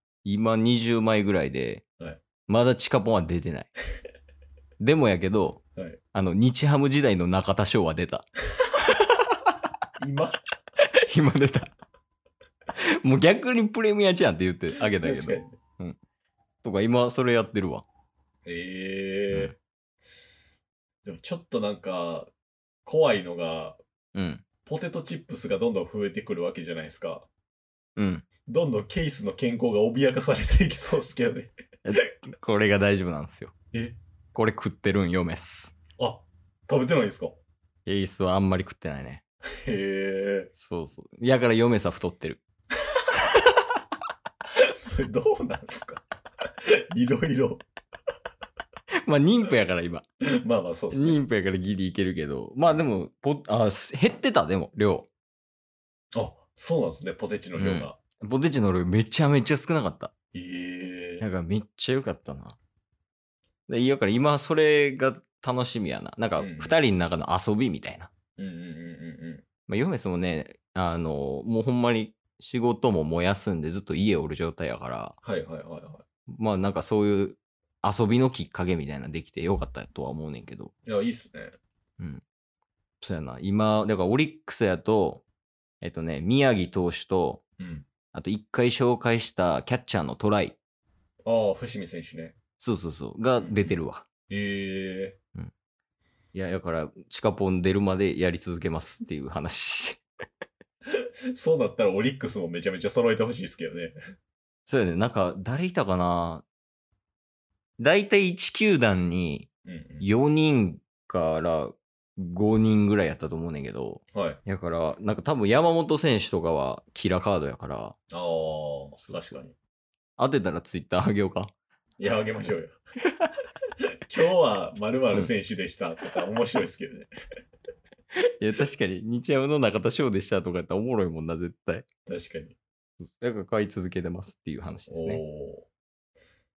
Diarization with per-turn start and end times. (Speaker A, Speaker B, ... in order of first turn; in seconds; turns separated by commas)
Speaker A: 0.2-1.8, Speaker A: 2.5-3.7, Speaker A: 4.8-5.6, Speaker A: 6.1-8.3, Speaker B: 10.0-10.4, Speaker A: 11.1-11.7, Speaker A: 12.8-16.0, Speaker B: 15.0-15.6, Speaker A: 16.6-17.9, Speaker B: 18.4-19.6, Speaker B: 21.0-22.3, Speaker B: 22.9-23.8, Speaker A: 24.1-24.4, Speaker B: 24.7-27.3, Speaker A: 27.9-28.2, Speaker B: 28.4-31.5, Speaker A: 31.9-33.5, Speaker B: 33.7-34.0, Speaker A: 34.4-35.8, Speaker B: 36.0-37.4, Speaker A: 37.9-39.2, Speaker B: 39.6-40.5, Speaker A: 40.6-42.4, Speaker B: 44.6-46.0, Speaker B: 46.6-47.6, Speaker A: 49.0-50.0, Speaker B: 50.3-51.2, Speaker A: 50.9-55.1, Speaker B: 56.1-58.0, Speaker A: 57.6-60.1, Speaker B: 60.3-61.2, Speaker A: 61.2-62.6, Speaker A: 63.7-68.1, Speaker B: 66.4-66.8, Speaker B: 68.4-69.5, Speaker A: 69.7-75.2, Speaker B: 75.2-76.0, Speaker A: 76.3-80.7, Speaker B: 80.9-81.6, Speaker A: 83.0-85.2, Speaker A: 85.8-87.4, Speaker B: 87.6-87.9, Speaker A: 88.1-90.6, Speaker B: 91.2-92.4, Speaker A: 92.6-94.1, Speaker B: 93.4-93.8, Speaker B: 94.3-95.2, Speaker A: 96.3-100.0, Speaker B: 100.9-104.0, Speaker A: 104.7-106.4, Speaker A: 107.8-109.5, Speaker B: 109.7-110.1, Speaker A: 110.0-117.9, Speaker B: 114.1-114.4, Speaker B: 118.1-119.5, Speaker A: 120.2-121.5, Speaker B: 122.0-122.8, Speaker B: 124.1-127.1, Speaker A: 128.1-131.8, Speaker B: 132.1-132.6, Speaker A: 133.2-135.2, Speaker B: 134.9-135.7